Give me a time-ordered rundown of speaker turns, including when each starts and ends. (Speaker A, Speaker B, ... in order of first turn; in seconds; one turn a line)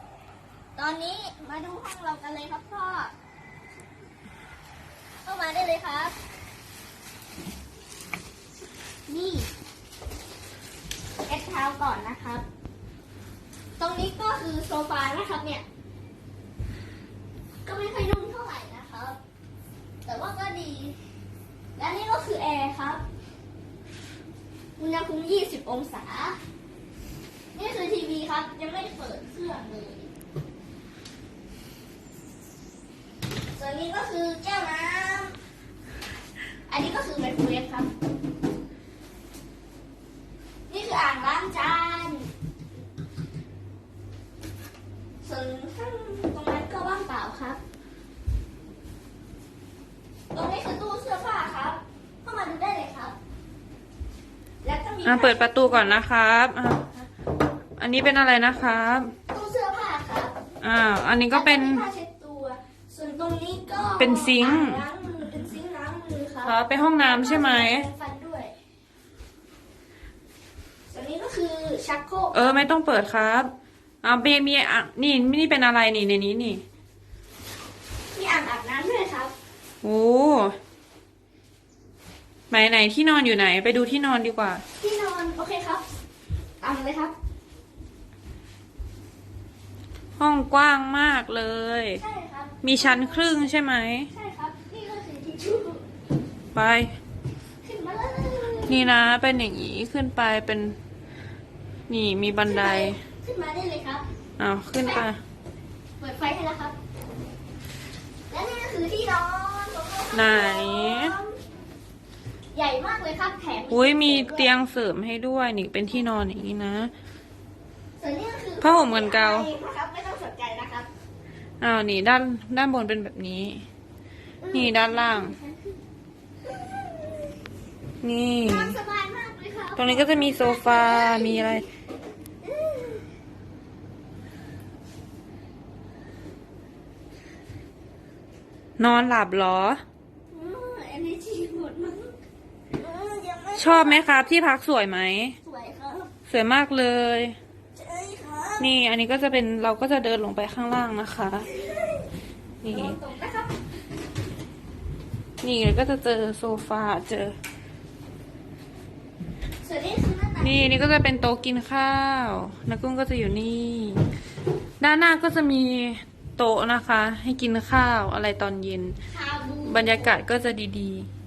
Speaker A: 0.8-3.1
Speaker A: 5.2-6.1
Speaker A: 9.1-9.5
Speaker A: 11.3-12.5
Speaker A: 13.8-15.7
Speaker A: 17.6-19.2
Speaker A: 20.1-21.0
Speaker A: 21.8-23.0
Speaker A: 24.8-26.4
Speaker A: 27.6-30.1
Speaker A: 33.5-35.4
Speaker A: 36.7-37.9
Speaker A: 40.7-42.3
Speaker A: 45.2-47.6
Speaker A: 50.3-53.2
Speaker A: 54.6-56.0
Speaker B: 55.0-56.9
Speaker B: 57.8-59.1
Speaker A: 59.3-60.4
Speaker B: 60.6-61.9
Speaker A: 61.3-68.5
Speaker B: 64.0-64.8
Speaker B: 66.4-67.9
Speaker A: 70.9-72.6
Speaker B: 72.3-73.5
Speaker B: 74.0-76.6
Speaker A: 78.1-79.3
Speaker B: 79.8-80.6
Speaker B: 82.5-84.6
Speaker A: 84.8-85.8
Speaker A: 86.6-87.2
Speaker B: 90.2-92.0
Speaker A: 92.0-93.5
Speaker B: 92.6-94.1
Speaker A: 94.1-95.8
Speaker B: 96.5-97.0
Speaker A: 97.6-98.9
Speaker B: 98.7-100.8
Speaker B: 101.9-103.0
Speaker A: 102.4-104.0
Speaker B: 104.4-105.2
Speaker A: 106.0-106.8
Speaker A: 108.3-111.4
Speaker B: 110.1-111.2
Speaker A: 112.5-114.5
Speaker B: 113.7-116.9
Speaker A: 118.0-120.9
Speaker B: 118.6-119.5
Speaker B: 121.6-123.7
Speaker A: 124.4-125.8
Speaker B: 124.5-125.4
Speaker A: 126.4-127.3
Speaker B: 128.0-128.8
Speaker A: 128.5-131.7
Speaker B: 129.8-131.6
Speaker A: 132.4-133.1
Speaker B: 138.8-139.8
Speaker A: 140.3-142.2
Speaker A: 142.8-144.3
Speaker B: 143.6-145.4
Speaker A: 145.4-146.1
Speaker B: 146.3-147.4
Speaker A: 147.8-148.7
Speaker B: 148.6-151.5
Speaker A: 151.4-152.1
Speaker B: 152.6-153.0
Speaker A: 152.7-153.5
Speaker B: 155.4-157.3
Speaker A: 159.6-160.8
Speaker B: 160.4-164.1
Speaker B: 164.8-169.0
Speaker A: 169.1-170.2
Speaker B: 169.7-171.1